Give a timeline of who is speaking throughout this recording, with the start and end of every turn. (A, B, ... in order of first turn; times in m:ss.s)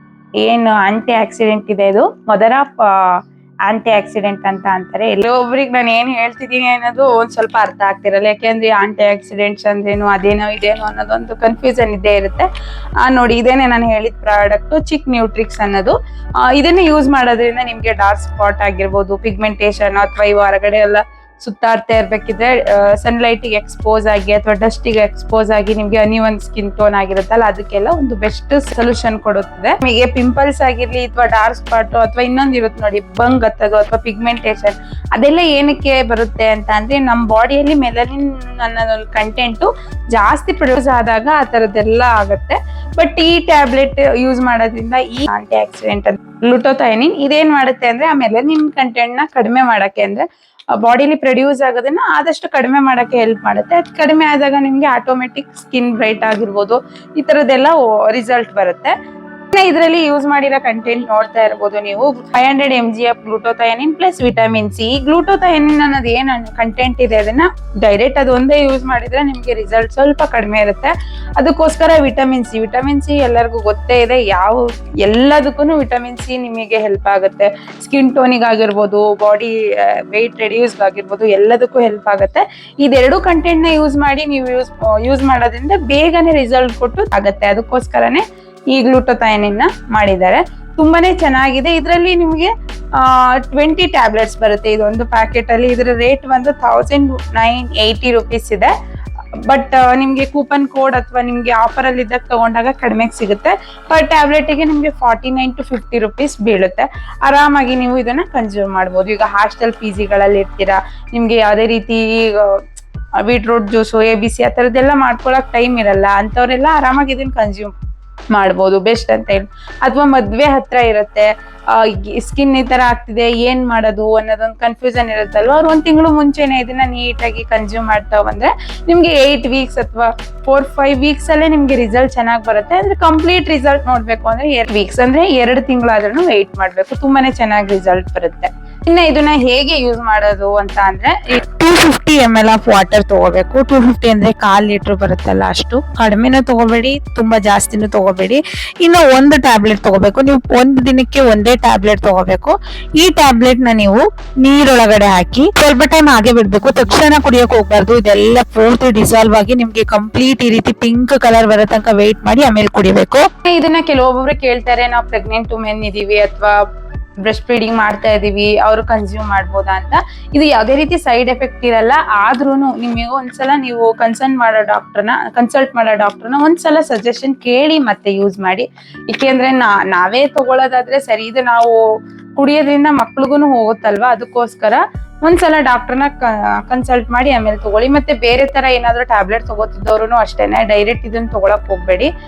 0:00.4-0:02.8 A
0:03.7-0:12.5 A
0:13.0-0:58.9 A
0:59.5-1:38.7 A
1:39.5-1:52.6 A
1:53.2-1:57.7 A
1:58.3-2:46.5 A
2:47.2-3:01.8 A
3:02.4-3:12.1 A